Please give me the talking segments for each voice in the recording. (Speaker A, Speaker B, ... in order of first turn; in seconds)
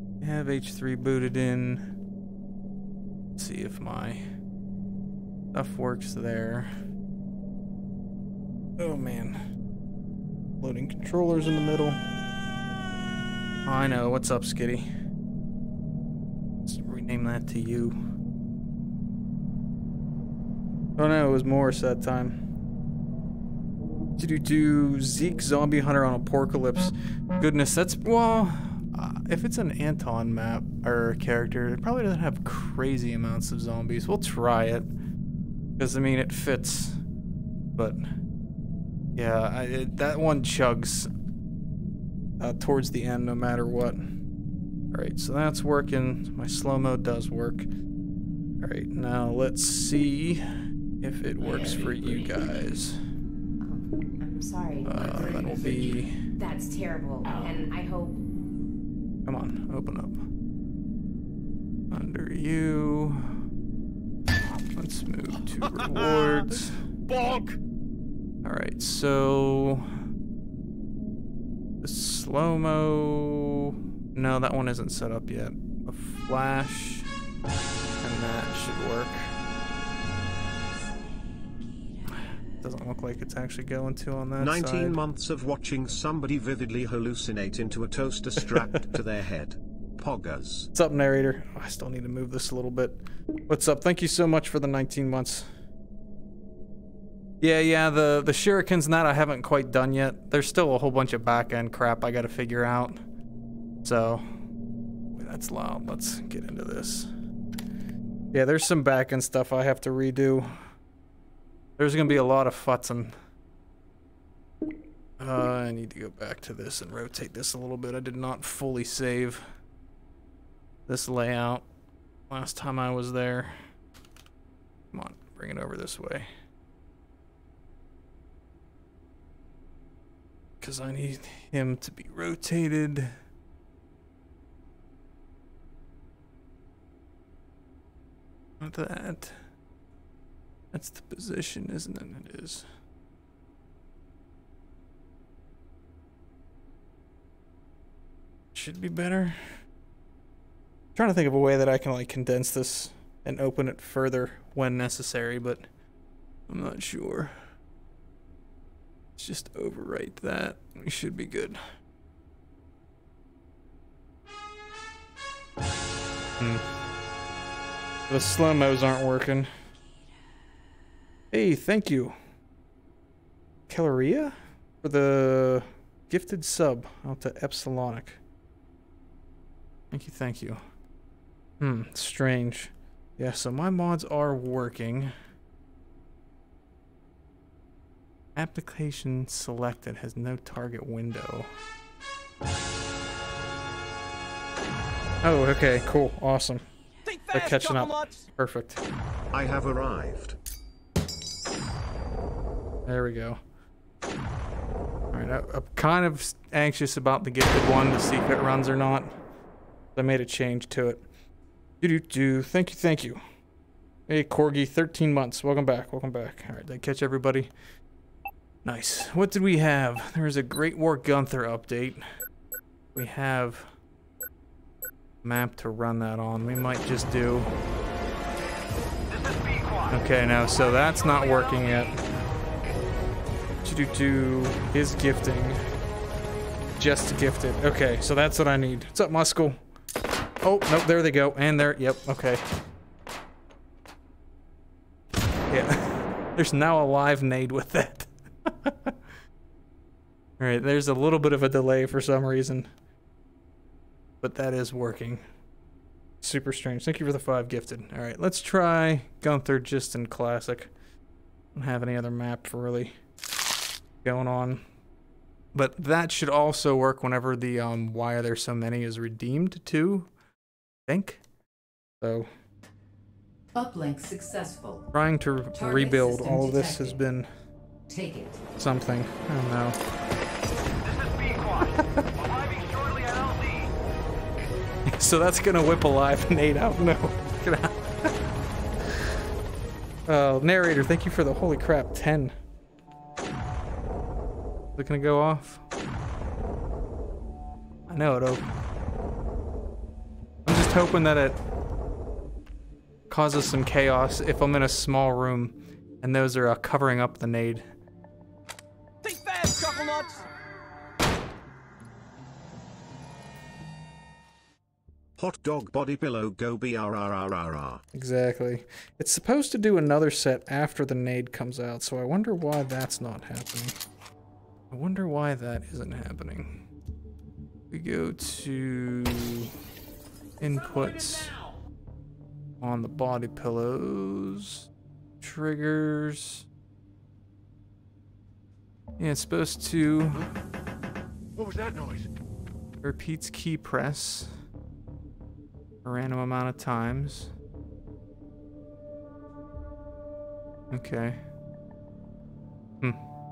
Speaker A: 0.2-1.9, 3.4-4.2, 5.5-6.7, 8.8-9.4, 10.6-12.0, 13.7-14.9, 16.6-17.9, 21.0-22.4, 24.2-34.9, 35.8-37.0, 37.8-38.0, 39.1-41.1, 42.4-44.0, 44.9-47.7, 48.6-50.4, 51.0-53.0, 54.8-56.2, 59.2-60.2, 61.9-63.3, 64.7-66.8, 68.4-69.9, 71.8-77.1, 78.0-79.3, 82.6-85.0, 90.7-95.5, 97.4-103.0, 103.8-104.2, 105.1-107.1, 108.3-110.5, 111.8-113.1, 115.2-119.4, 120.9-121.6, 122.3-123.6, 124.9-126.3, 130.6-133.1, 138.6-139.4, 140.7-142.7, 148.5-149.4, 150.9-155.7, 156.5-157.4, 159.2-161.6, 166.4-166.6, 168.1-169.5, 171.3-172.2, 173.7-178.2, 179.9-180.6, 181.6-185.1, 188.3-191.5, 195.2-196.7, 197.3-198.8, 202.8-203.4, 205.1-209.2, 209.9-211.1, 211.8-213.2, 214.1-217.5, 218.6-222.1, 222.9-223.7, 225.2-227.5, 229.9-232.0, 233.6-235.6, 236.8-239.6, 240.4-242.4, 245.5-248.9, 250.4-252.7, 254.2-255.2, 256.2-260.7, 261.5-262.9, 264.0-264.6, 265.5-270.1, 270.9-271.2, 272.0-272.3, 274.9-277.3, 278.6-279.8, 281.6-282.0, 284.9-288.1, 290.1-292.3, 294.8-295.6, 297.9-298.5, 300.4-301.4, 303.1-307.7, 317.9-323.8, 324.7-326.6, 327.7-329.5, 330.4-331.3, 332.6-334.7, 335.2-336.4, 339.0-340.3, 342.8-344.3, 345.8-347.3, 350.7-351.2
Speaker B: 51.4-52.4, 55.0-56.0, 57.2-57.6, 67.1-67.6, 341.4-342.1
Speaker C: 53.6-55.8, 56.4-58.2
Speaker D: 84.4-90.7, 199.3-200.3, 315.2-317.8
Speaker E: 273.5-274.9, 275.5-277.0, 277.9-278.4